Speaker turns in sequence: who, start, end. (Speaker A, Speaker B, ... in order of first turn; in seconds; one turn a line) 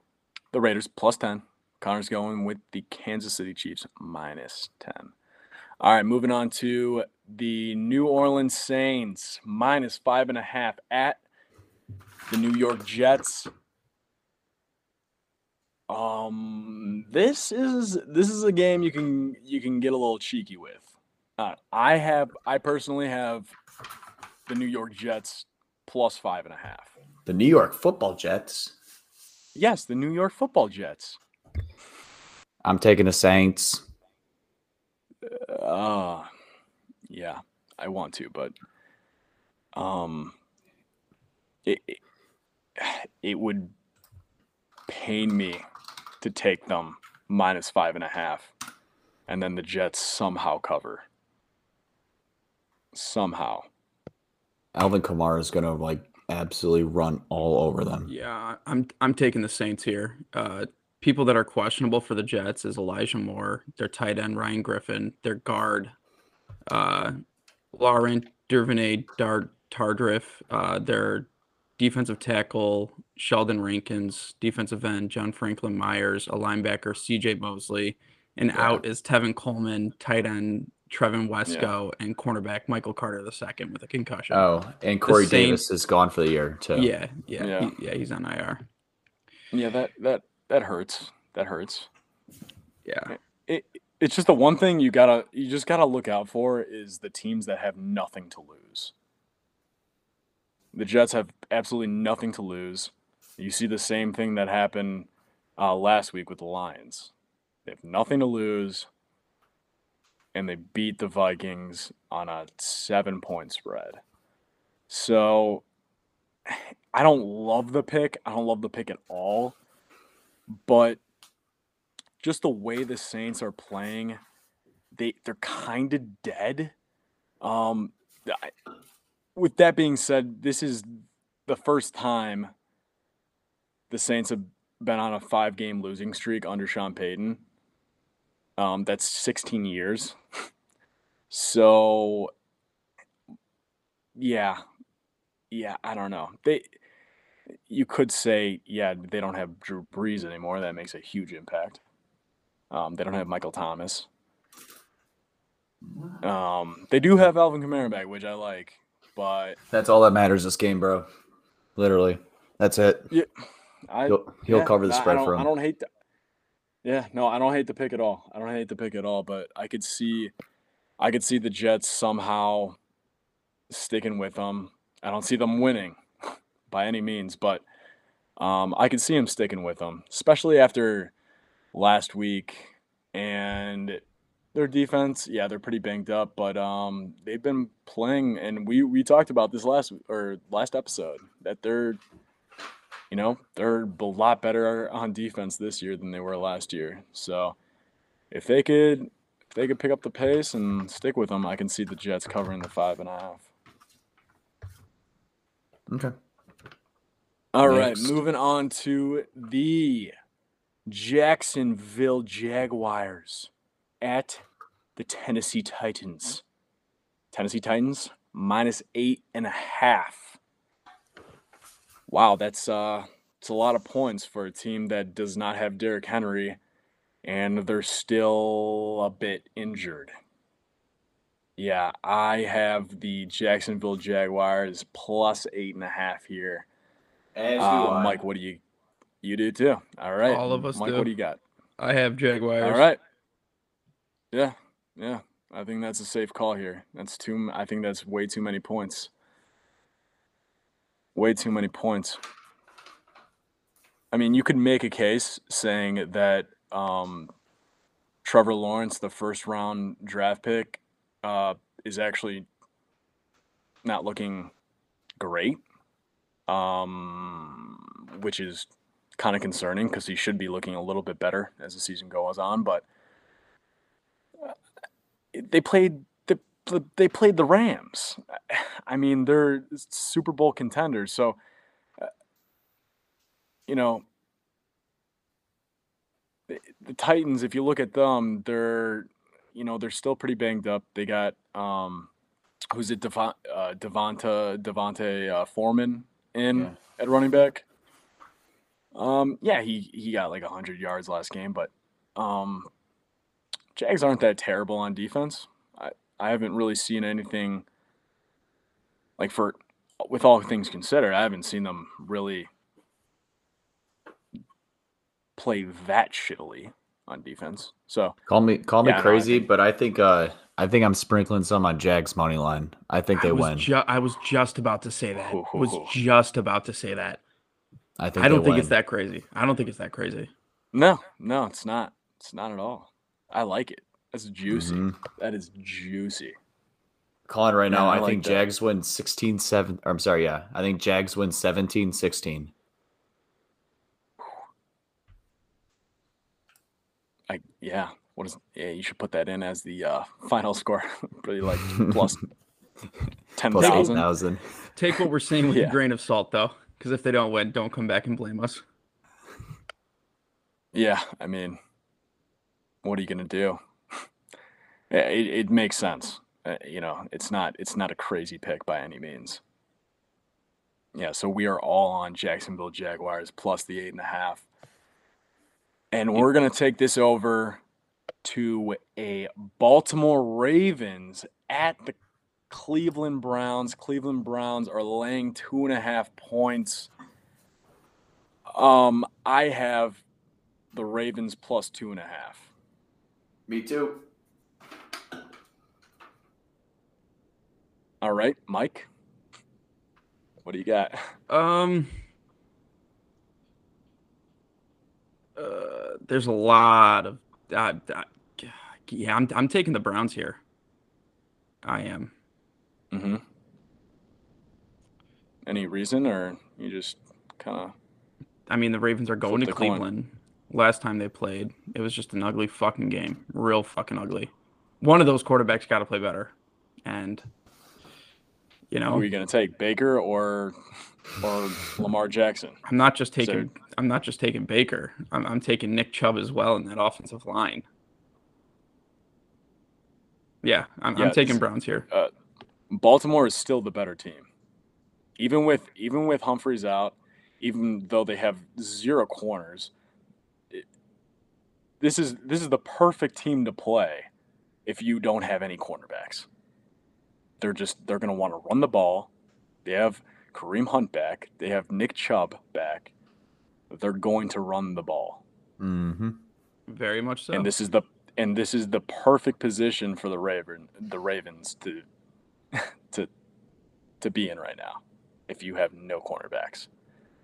Speaker A: 0.5-5.1
Speaker A: 5.8-11.2
Speaker A: 12.3-13.5
Speaker A: 15.9-23.5
Speaker A: 24.5-26.9
Speaker B: 27.2-28.7
Speaker A: 29.6-31.2
Speaker B: 32.6-33.9
Speaker A: 35.2-36.3
Speaker A: 37.1-38.5
Speaker A: 39.8-40.4
Speaker A: 41.6-42.0
Speaker A: 42.8-43.7
Speaker A: 44.9-45.6
Speaker A: 46.2-48.5
Speaker A: 49.3-51.0
Speaker A: 52.9-53.7
Speaker B: 54.8-58.1
Speaker C: 58.1-65.9
Speaker C: 66.7-67.2
Speaker C: 67.7-84.5
Speaker B: 78.5-78.8
Speaker B: 84.3-86.9
Speaker C: 85.1-85.6
Speaker C: 86.7-88.7
Speaker A: 87.4-87.7
Speaker A: 89.5-91.9
Speaker C: 92.8-93.2
Speaker A: 93.1-98.9
Speaker A: 100.7-107.1
Speaker A: 107.7-108.9
Speaker A: 110.3-114.0
Speaker A: 114.9-115.6
Speaker A: 116.5-119.5
Speaker A: 120.5-121.0
Speaker A: 122.2-124.2
Speaker A: 124.9-126.7
Speaker A: 127.4-128.5
Speaker A: 129.4-132.5
Speaker A: 133.9-137.4
Speaker A: 138.6-140.2
Speaker A: 141.3-142.3
Speaker A: 144.2-144.6
Speaker A: 145.5-146.7
Speaker A: 147.7-151.8
Speaker A: 152.7-154.1
Speaker A: 156.2-159.6
Speaker B: 159.7-161.1
Speaker B: 161.8-163.1
Speaker A: 163.9-165.9
Speaker B: 164.1-165.5
Speaker A: 166.8-170.3
Speaker A: 171.0-172.8
Speaker A: 173.7-177.6
Speaker A: 178.4-181.1
Speaker A: 181.7-184.0
Speaker A: 184.5-192.0
Speaker A: 193.1-197.6
Speaker A: 198.3-203.5
Speaker B: 205.9-206.1
Speaker A: 207.5-210.1
Speaker B: 207.7-208.2
Speaker A: 210.9-213.5
Speaker A: 214.0-214.4
Speaker A: 215.0-216.4
Speaker A: 217.3-220.4
Speaker A: 222.1-226.6
Speaker A: 227.2-230.1
Speaker A: 231.6-236.7
Speaker B: 237.3-238.2
Speaker A: 237.6-238.6
Speaker A: 239.2-241.4
Speaker C: 240.3-241.1
Speaker C: 241.8-242.9
Speaker A: 242.6-243.0
Speaker A: 244.3-249.1
Speaker A: 251.2-252.2
Speaker A: 254.1-257.3
Speaker A: 258.2-262.5
Speaker A: 263.8-264.5
Speaker A: 265.2-265.6
Speaker A: 266.5-272.8
Speaker A: 275.3-281.4
Speaker A: 283.7-284.0
Speaker A: 286.5-292.1
Speaker A: 292.7-297.6
Speaker A: 298.9-302.7
Speaker A: 303.8-307.6
Speaker A: 309.2-312.5
Speaker A: 315.4-318.1
Speaker B: 318.3-323.7
Speaker A: 318.8-319.5
Speaker C: 323.1-327.2
Speaker A: 325.2-326.0
Speaker B: 328.0-328.7
Speaker C: 328.2-330.3
Speaker A: 330.7-336.4
Speaker B: 334.5-335.0
Speaker B: 337.3-342.5
Speaker A: 337.7-338.4
Speaker A: 347.3-352.2
Speaker A: 353.4-354.1
Speaker B: 353.5-354.6
Speaker C: 353.6-353.9
Speaker C: 354.8-358.6
Speaker A: 355.5-355.8
Speaker A: 360.7-361.6
Speaker A: 362.8-364.0
Speaker A: 364.9-369.4
Speaker A: 370.9-374.4
Speaker A: 375.9-377.6
Speaker A: 378.2-381.9
Speaker A: 382.5-386.9
Speaker A: 388.5-390.0
Speaker A: 390.7-392.5
Speaker B: 393.5-394.0
Speaker A: 398.0-398.9
Speaker A: 400.4-401.1
Speaker C: 401.3-402.0
Speaker C: 405.4-410.4
Speaker C: 411.6-412.1
Speaker A: 412.9-413.2
Speaker A: 415.5-417.7
Speaker C: 418.5-426.3
Speaker A: 419.2-419.9
Speaker C: 426.9-427.2
Speaker C: 428.7-429.1
Speaker A: 428.9-430.6
Speaker A: 431.2-432.6
Speaker C: 432.6-437.6
Speaker A: 433.2-433.5
Speaker C: 440.4-441.9
Speaker A: 441.0-442.1
Speaker A: 442.7-444.2
Speaker A: 445.2-449.7
Speaker A: 451.8-454.1
Speaker A: 454.7-456.3
Speaker A: 457.4-459.1
Speaker A: 459.6-462.9
Speaker A: 463.7-465.2
Speaker B: 465.6-466.2
Speaker C: 466.7-467.5
Speaker A: 467.3-471.8
Speaker A: 472.5-473.1
Speaker A: 474.0-476.7